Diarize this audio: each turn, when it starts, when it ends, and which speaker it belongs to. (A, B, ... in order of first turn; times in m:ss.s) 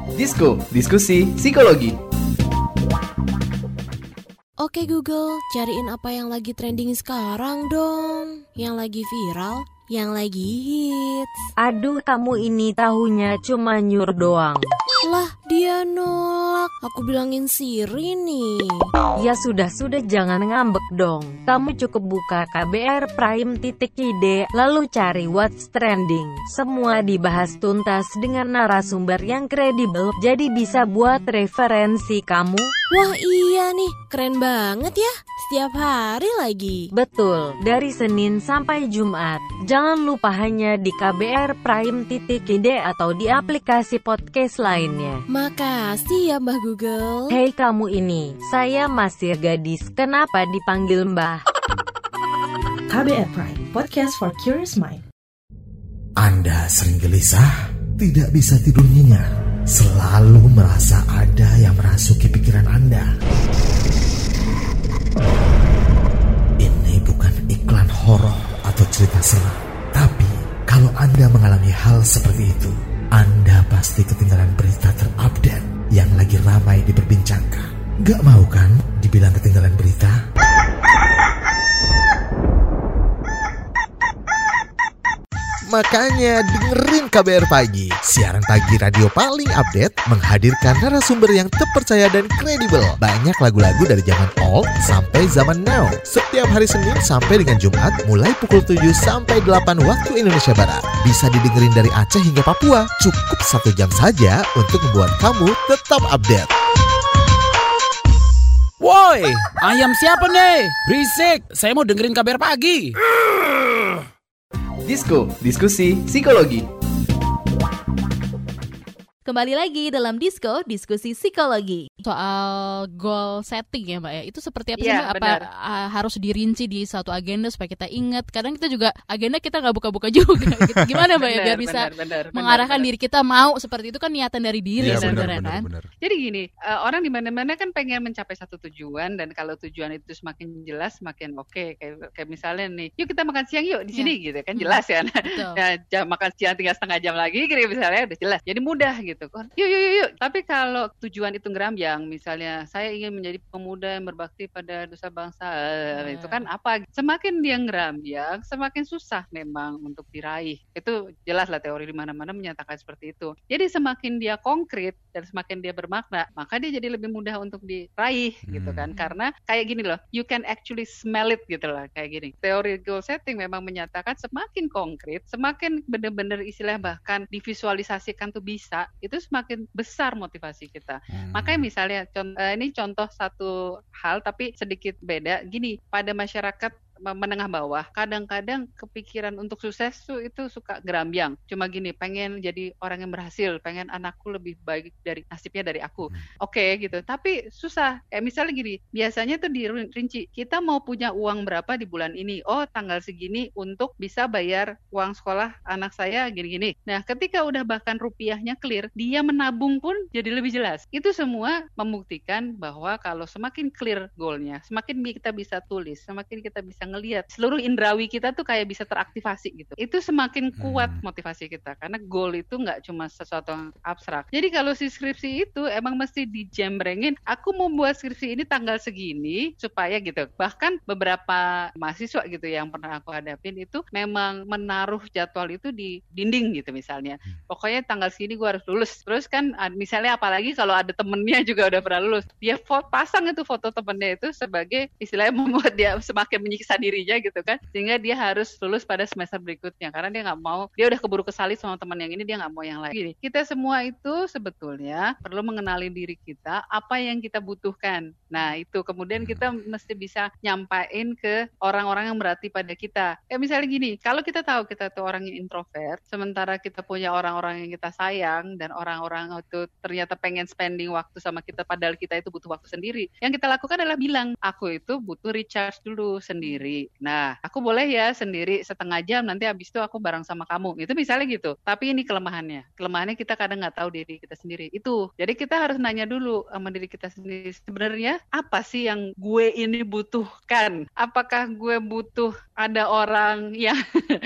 0:00.1-0:01.9 A
0:04.6-0:11.4 B
0:11.6-0:14.6 C
0:15.0-0:18.9 B
0:19.2-0:32.7 C
0:32.9-0:36.9 B
0:36.9-0:45.2 C
0:45.3-0:47.4 B
0:47.3-0:51.4 C
0:52.9-0:55.0 D
0:56.2-1:03.1 E
1:06.6-1:20.2 E
1:25.7-1:46.5 E
1:48.8-1:53.0 F
1:54.8-1:56.6 A
1:59.2-2:01.9 G
2:02.0-2:15.6 H
2:04.8-2:05.4 I
2:10.6-2:10.9 J
2:11.2-2:12.9 I
2:14.8-2:15.9 J
2:14.8-2:15.3 I
2:16.0-4:53.8 I
2:23.9-2:25.6 H
2:36.0-2:36.5 H
2:48.5-2:48.9 J
3:01.1-3:01.6 J
3:40.6-3:41.0 J
4:19.2-4:19.5 J